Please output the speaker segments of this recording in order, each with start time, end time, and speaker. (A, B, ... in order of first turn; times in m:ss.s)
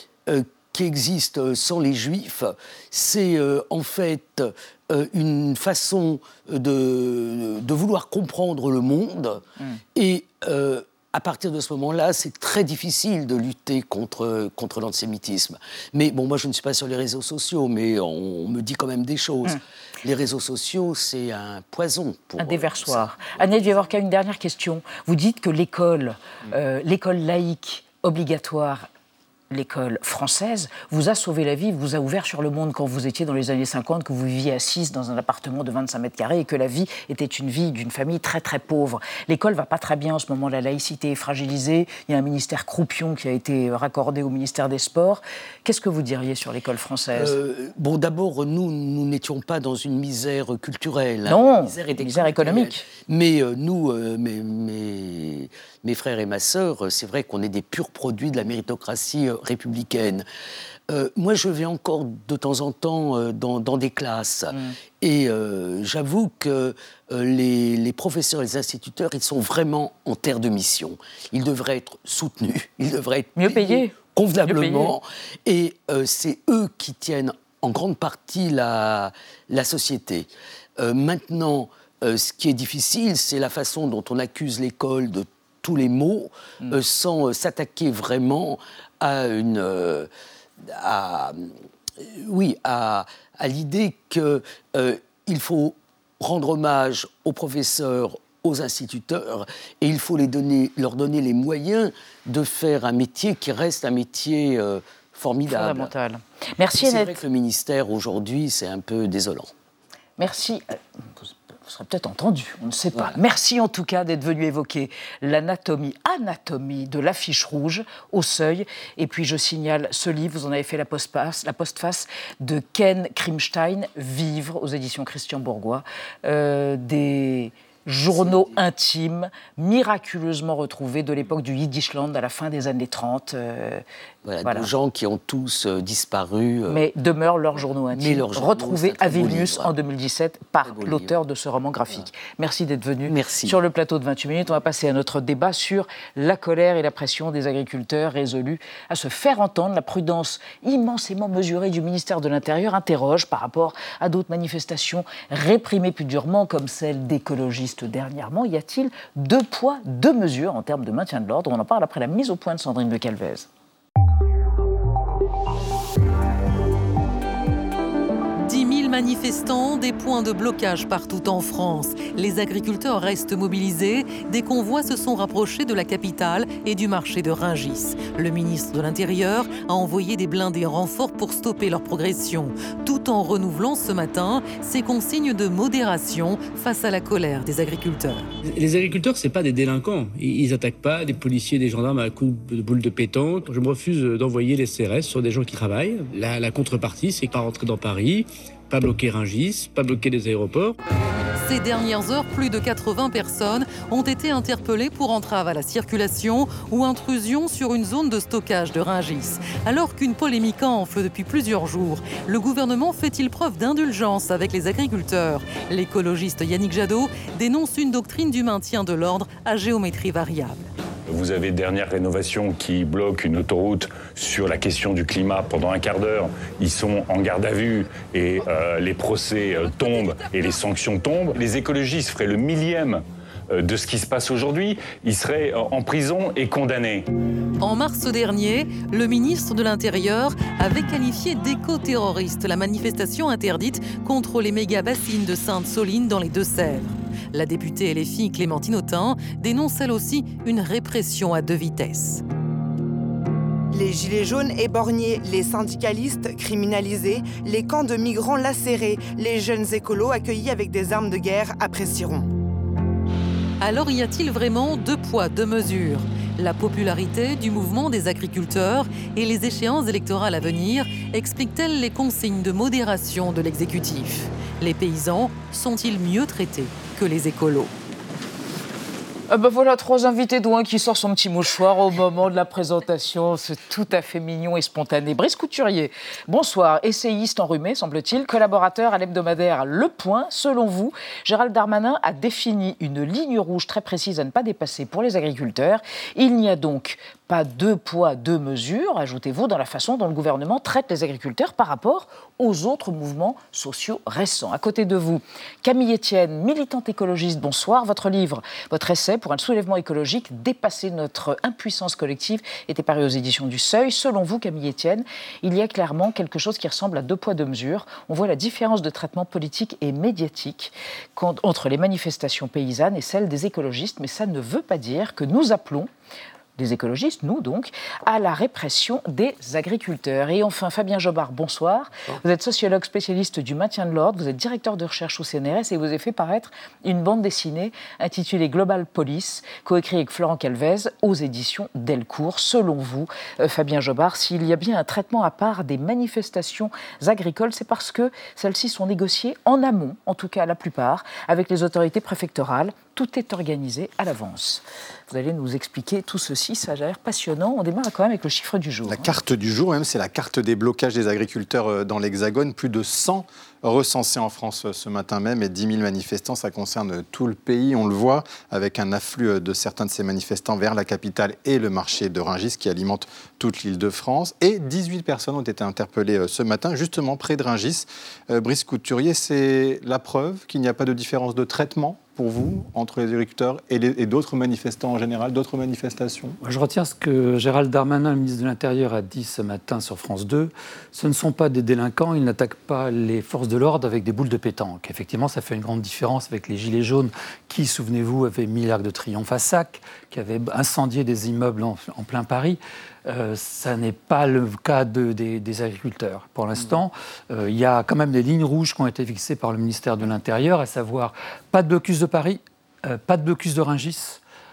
0:00.3-0:09.4 A
0:10.0-0:23.1 A
0:22.4-0:28.9 B
0:29.5-0:47.4 B
0:47.2-1:00.3 A
0:51.3-0:52.8 B
1:00.9-1:30.1 A
1:13.4-1:14.9 B
1:30.6-1:45.9 A
1:45.5-1:47.2 B
1:46.8-1:49.5 A
1:50.2-2:13.8 B
2:08.1-2:08.6 A
2:14.2-2:16.9 A
2:14.4-2:14.7 B
2:16.7-2:43.5 B
2:17.9-2:19.7 A
2:20.6-2:21.2 A
2:23.1-2:23.6 A
2:48.4-3:08.2 C
3:08.4-3:20.8 D
3:21.4-3:40.7 C
3:41.1-3:57.1 E
3:57.6-4:12.2 C
4:13.7-4:22.3 F
4:23.6-4:37.7 C
4:39.3-5:25.9 B
5:26.6-5:59.2 B
5:58.9-6:26.4 G
6:26.4-6:54.2 H